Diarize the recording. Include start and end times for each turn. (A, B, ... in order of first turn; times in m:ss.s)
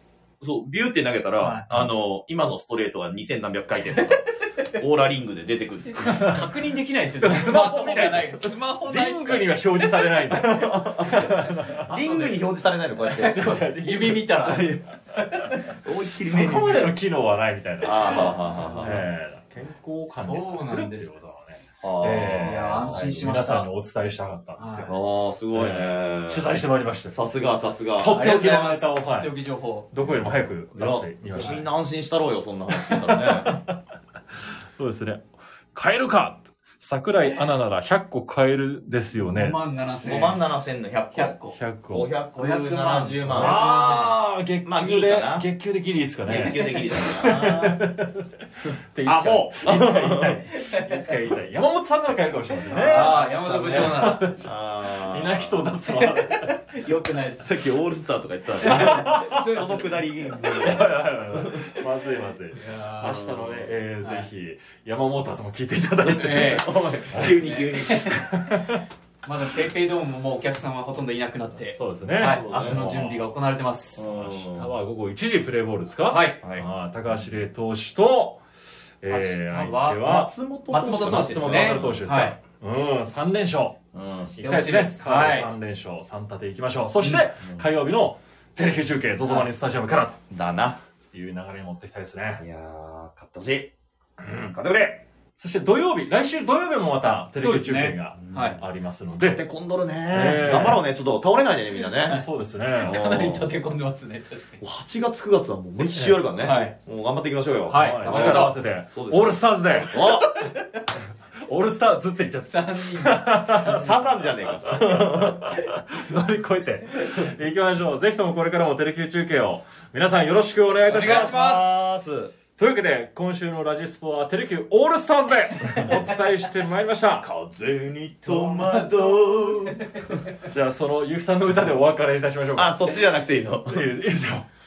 0:00.4-0:06.4 A
0:01.4-0:01.7 B
0:05.9-0:10.3 B
0:07.2-0:11.9 C
0:10.3-0:13.8 A
0:11.1-0:12.4 B
0:13.1-0:14.4 C
0:13.8-0:14.7 B
0:14.4-0:14.9 A
0:15.8-0:17.0 A
0:16.2-0:25.0 C
0:17.8-0:19.1 A
0:18.0-0:19.0 B
0:20.2-0:21.1 B
0:21.8-0:23.3 A
0:22.0-0:23.7 B
0:24.6-0:24.9 B
0:24.9-0:26.5 A
0:25.5-0:27.2 C
0:27.1-0:28.2 A
0:28.0-0:29.3 C
0:28.1-0:29.9 B
0:29.9-0:31.6 C
0:30.0-0:33.6 A
0:32.7-0:33.8 C
0:34.8-0:39.6 C
0:37.2-0:37.4 B
0:39.2-0:40.4 B
0:40.0-0:41.4 A
0:41.1-0:41.6 B
0:41.5-0:42.1 C
0:41.9-0:44.1 A
0:42.4-0:44.2 B
0:43.3-0:56.6 C
0:44.6-0:45.5 A
0:46.2-0:47.9 A
0:46.4-0:46.7 B
0:49.0-0:50.4 A
0:50.5-0:51.0 B
0:52.7-0:55.7 A
0:52.7-0:54.3 B
0:55.9-0:57.5 B
0:57.4-1:01.6 A
0:58.6-1:00.0 B
0:58.6-0:59.4 C
1:00.5-1:07.4 C
1:02.5-1:03.2 B
1:03.0-1:03.7 A
1:04.0-1:04.3 B
1:06.0-1:08.3 A
1:06.1-1:08.2 B
1:08.3-1:08.8 C
1:09.2-1:14.2 B
1:11.7-1:13.1 C
1:12.2-1:13.1 A
1:14.0-1:14.7 A
1:14.1-1:18.4 C
1:16.0-1:16.4 B
1:19.0-1:20.3 C
1:19.1-1:20.0 B
1:20.0-1:22.0 A
1:20.7-1:22.4 B
1:20.9-1:23.8 C
1:23.9-1:24.3 A
1:24.4-1:30.2 C
1:24.4-1:25.5 B
1:27.0-1:27.6 A
1:29.2-1:29.5 B
1:30.3-1:30.8 A
1:31.1-1:32.4 C
1:32.4-1:33.7 A
1:34.2-1:34.5 C
1:34.2-1:35.0 A
1:35.4-1:39.4 C
1:37.4-1:38.6 B
1:38.3-1:38.6 A
1:39.2-1:42.2 A
1:40.1-1:40.8 C
1:42.1-1:43.0 C
1:42.8-1:44.6 B
1:42.8-1:43.6 A
1:44.6-1:50.4 A
1:45.9-1:46.2 C
1:46.4-1:46.8 B
1:47.7-1:48.5 B
1:47.7-1:50.0 C
1:50.0-1:50.8 B
1:51.5-1:53.9 C
1:52.5-1:54.2 B
1:53.6-1:55.6 A
1:54.6-2:01.4 C
2:00.9-2:01.7 B
2:00.9-2:02.3 A
2:02.6-2:07.3 C
2:07.2-2:10.2 A
2:08.2-2:10.0 B
2:10.4-2:12.9 C
2:12.6-2:13.9 A
2:13.6-2:14.5 C